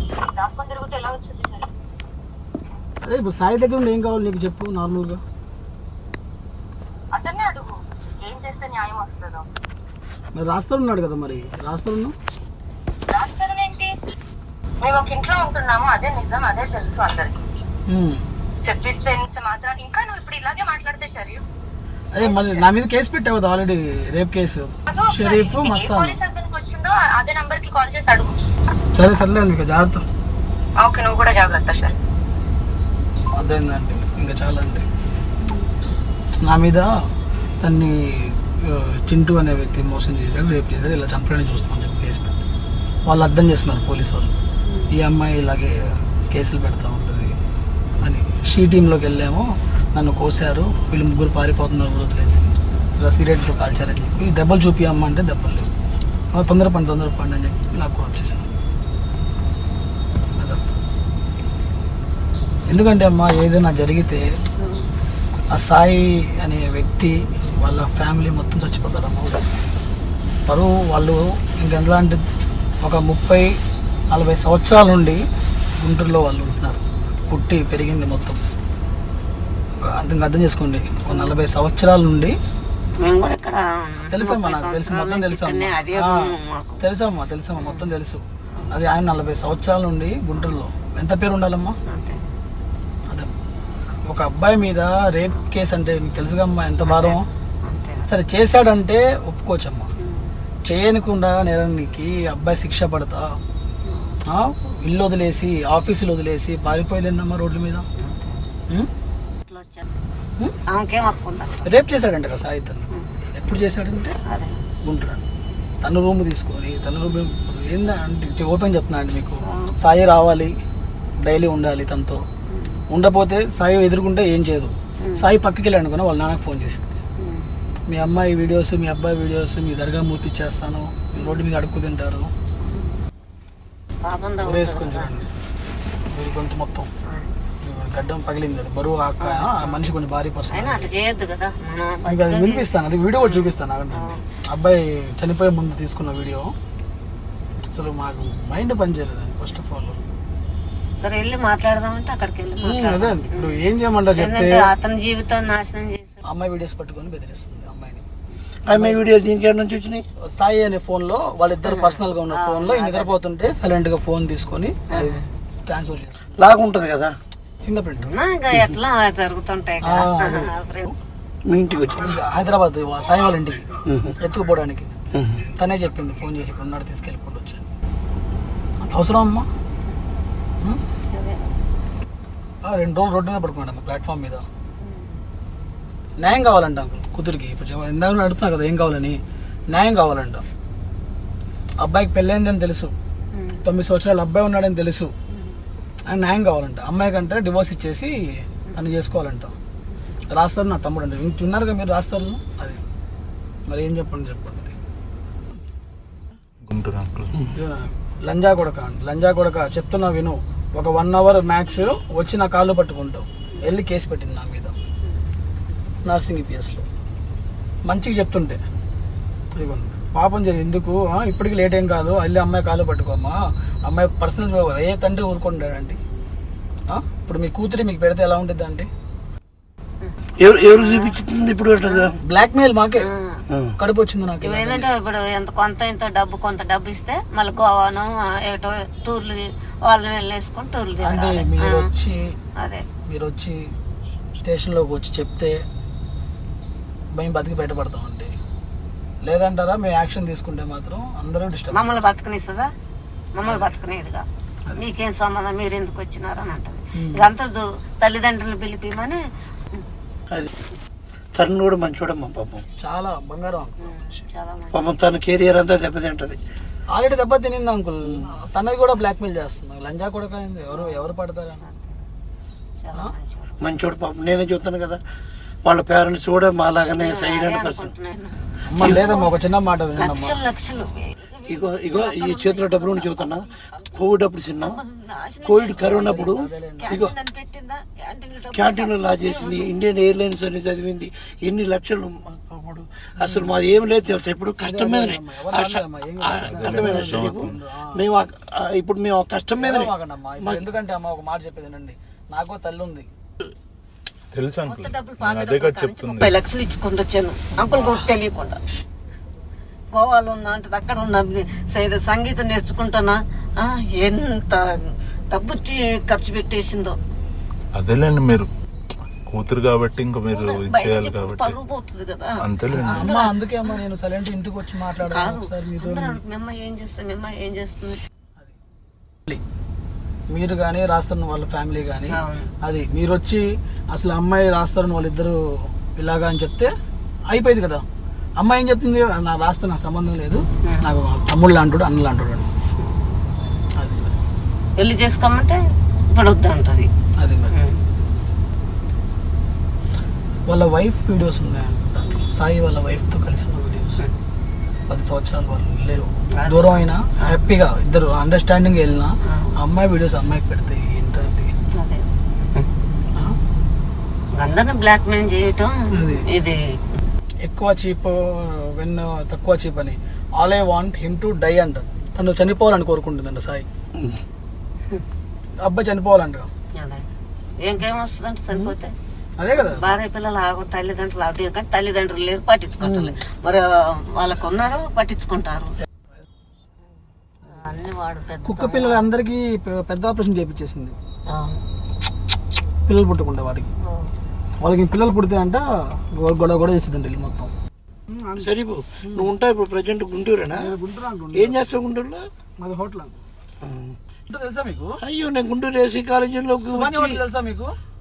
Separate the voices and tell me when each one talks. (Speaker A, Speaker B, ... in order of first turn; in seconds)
Speaker A: 0.1-1.7, 7.1-9.5, 13.1-13.9, 14.8-17.4, 18.6-21.4, 22.2-22.6, 24.9-28.3, 30.8-31.9
Speaker B: 3.0-5.2, 10.3-12.2, 17.9-18.2, 22.1-26.2, 28.9-30.1, 33.4-34.9, 36.4-37.1, 37.6-42.4, 43.1-44.4, 44.9-47.4, 48.0-55.7, 56.3-58.5, 60.4-60.6, 62.7-64.4, 65.5-69.7, 70.5-72.2, 72.8-75.2, 75.8-78.4, 79.8-82.4, 84.1-91.8, 93.1-93.3, 94.0-97.3, 98.1-99.9, 100.7-103.4, 104.3-107.8, 111.6-114.2, 114.8-115.2, 115.8-120.5, 121.2-122.2, 122.9-127.0, 127.9-132.3, 134.4-135.3, 136.1-136.9, 137.5-141.1, 142.0-146.5, 147.7-150.0, 152.6-154.7, 156.2-158.1, 158.7-159.1, 160.2-166.4, 167.6-168.2, 169.8-171.0, 172.1-173.7, 174.2-174.9, 175.5-177.7, 178.8-179.5, 182.6-184.5, 186.2-190.4, 191.8-192.9, 193.6-195.1, 196.1-199.6, 200.3-202.8, 203.7-204.8, 207.6-214.8, 216.1-216.9, 217.9-218.6, 219.6-226.0, 226.9-228.9, 232.2-233.2, 233.8-234.9, 240.9-242.4, 242.9-243.8, 244.4-245.7, 247.1-248.3, 249.2-251.9, 253.4-253.7, 256.9-257.4, 262.8-263.9, 266.9-271.6, 272.9-273.2, 278.7-280.5, 285.7-287.1, 293.2-293.6, 294.6-298.0, 299.6-303.1, 307.5-308.1, 322.7-326.2, 330.3-336.7, 337.3-337.9, 338.4-342.5, 343.8-344.2, 347.2-347.6, 350.5-354.1, 354.9-361.5, 365.9-366.3, 367.4-373.7, 375.6-376.5, 378.5-378.8, 379.4-380.0, 382.8-383.3, 388.4-391.0, 392.9-393.7, 394.6-397.5, 398.1-398.5, 399.0-399.3, 400.5-401.8, 402.6-403.2, 404.3-405.0, 406.6-407.8
Speaker C: 81.1-81.4, 83.0-86.9, 87.5-87.9, 91.9-92.3, 96.8-98.1, 100.0-100.3, 103.9-104.2, 108.0-108.4, 109.5-109.9, 110.6-111.8, 112.9-113.3, 114.2-114.7, 119.4-119.7, 122.5-122.8, 127.2-127.5, 131.2-131.5, 132.6-133.0, 134.0-135.2, 137.1-137.3, 139.2-139.9, 140.5-144.4, 151.0-156.2, 161.6-163.2, 164.9-165.3, 168.0-170.9, 181.1-181.5, 184.8-185.1, 193.3-193.7, 230.8-231.2, 233.0-233.4, 234.4-242.0, 242.6-242.9, 251.7-252.7, 253.3-259.2, 263.8-264.9, 270.7-271.9, 272.8-273.6, 277.0-279.4, 279.9-283.9, 284.6-289.7, 304.6-308.6, 309.9-317.0, 320.3-322.3, 322.9-323.8, 324.7-328.0, 332.1-332.6, 340.6-340.9, 344.8-345.6, 346.1-346.9, 347.5-347.8, 356.3-357.5, 359.3-359.5, 361.7-362.7, 364.4-366.8, 376.8-377.1, 377.6-378.9, 379.5-385.8, 387.5-389.1, 391.3-391.6, 393.8-394.1
Speaker D: 158.7-160.0, 166.4-167.2, 171.5-172.2, 173.9-174.2, 175.1-175.4, 230.4-232.2, 233.5-233.8, 261.3-262.6, 264.7-266.4, 268.1-268.4, 273.6-275.0, 275.6-277.9, 278.8-279.1, 281.5-284.8, 285.4-287.1, 288.5-300.7, 398.4-400.7, 401.3-402.3, 403.6-404.0, 405.0-407.2
Speaker E: 206.6-207.5, 296.4-297.6, 304.3-306.4, 317.8-318.5, 319.3-321.6, 322.4-323.1